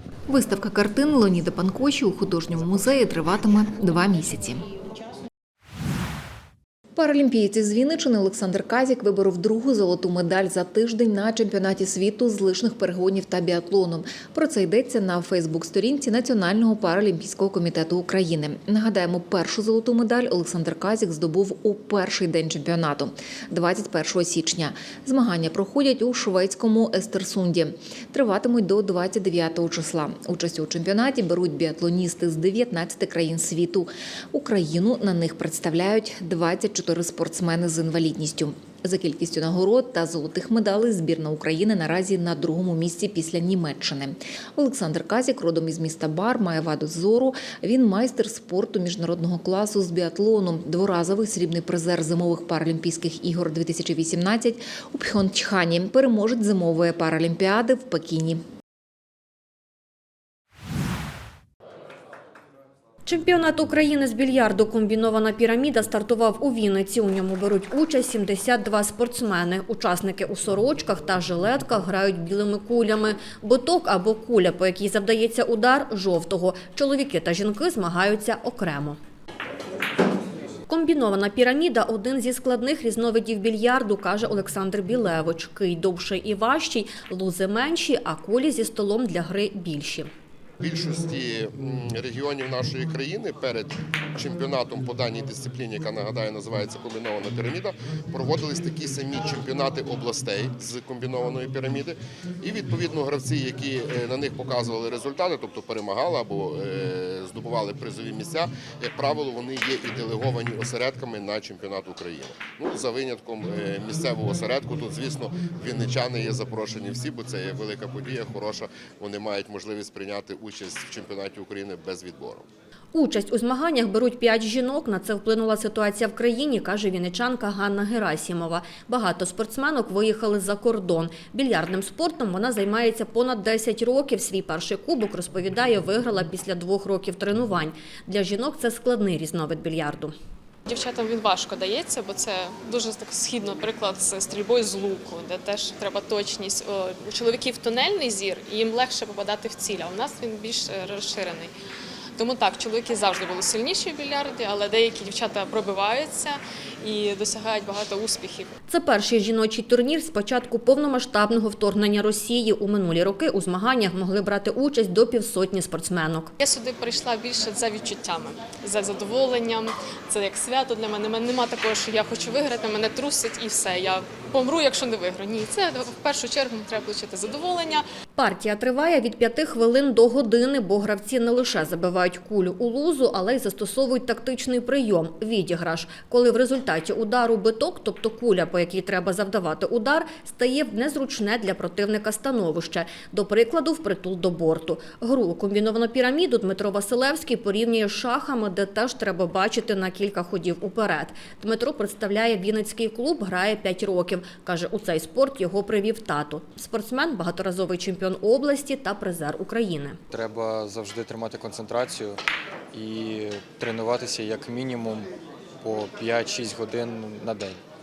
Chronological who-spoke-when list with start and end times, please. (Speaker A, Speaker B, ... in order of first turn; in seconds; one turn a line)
Speaker A: 0.3-4.7
Speaker A: 7.0-58.4
Speaker B: 63.0-79.0
Speaker B: 80.7-90.1
Speaker C: 90.6-122.5
Speaker B: 122.9-140.1
Speaker D: 140.7-151.5
Speaker D: 152.2-158.6
Speaker B: 158.7-166.3
Speaker D: 166.4-177.8
Speaker B: 178.2-209.9
Speaker E: 210.1-212.2
Speaker E: 212.7-215.1
Speaker E: 215.6-217.6